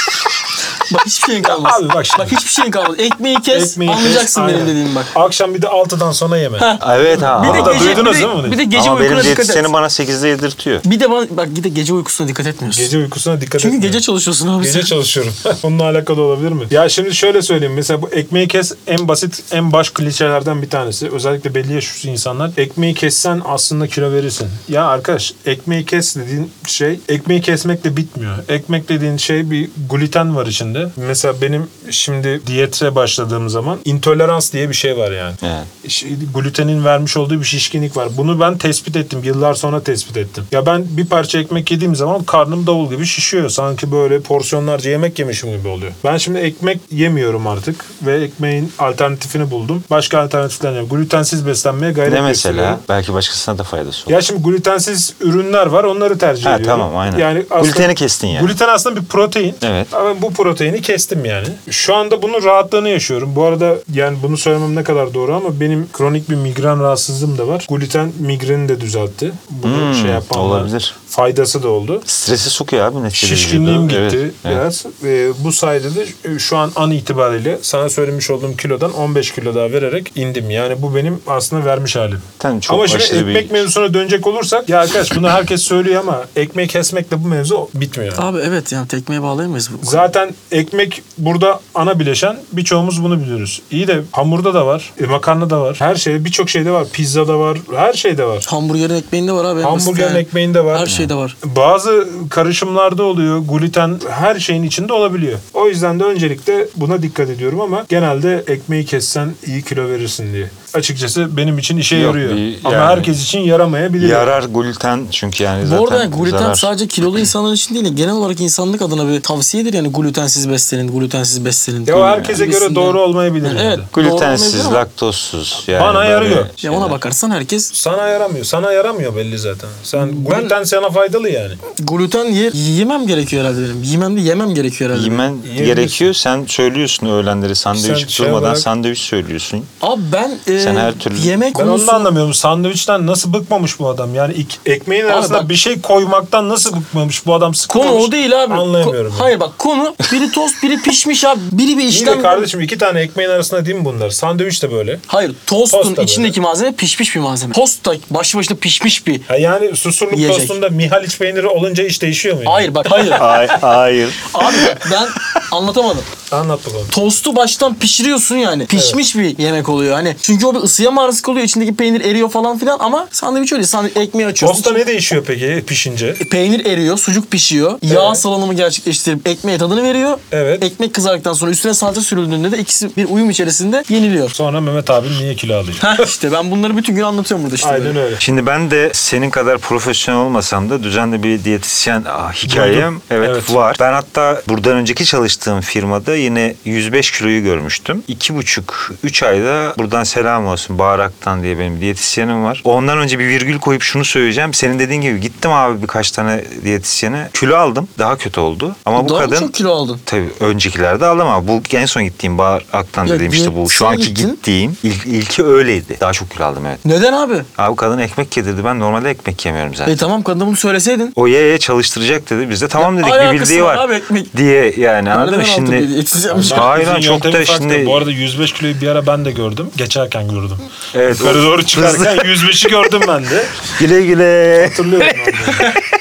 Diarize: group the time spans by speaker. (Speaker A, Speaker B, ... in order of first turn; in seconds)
Speaker A: 0.9-5.1, 6.6-9.7, 10.8-12.9, 13.6-14.9, 88.2-90.1, 98.4-101.3, 115.6-124.8, 126.6-127.7, 130.0-130.6, 131.8-135.2, 139.8-142.1, 145.1-145.5, 147.7-152.5, 155.1-159.2, 160.1-160.6, 162.4-163.4, 164.3-166.1, 166.9-174.8, 176.2-184.3, 185.8-188.0, 208.9-210.0, 213.0-214.4, 216.8-217.5, 219.9-221.1, 222.8-224.3, 225.1-226.7
Speaker B: 1.4-2.4, 3.5-8.6, 12.7-14.0, 14.6-52.8, 54.1-72.1, 73.1-88.2, 89.8-98.5, 99.6-114.3, 121.9-123.9, 125.7-126.5, 127.7-131.6, 135.4-136.1, 137.7-138.7, 141.5-149.3, 151.9-155.0, 155.7-156.4, 159.3-163.3, 166.3-166.9, 168.7-169.0, 174.4-176.2, 177.9-178.2, 180.3-180.7, 184.3-186.1, 187.6-188.2, 192.5-193.6, 226.3-233.7, 234.6-235.7
Speaker C: 6.8-10.8, 35.4-35.7, 52.1-54.2, 56.4-58.5, 59.6-59.9, 69.6-71.0, 72.1-74.6, 82.4-83.7, 100.9-101.1, 111.9-113.1, 114.0-116.7, 123.9-127.0, 134.9-139.7, 140.6-141.3, 163.0-164.7, 188.2-209.5, 210.1-216.8, 217.6-220.1, 221.2-228.0, 230.9-232.5, 233.7-235.1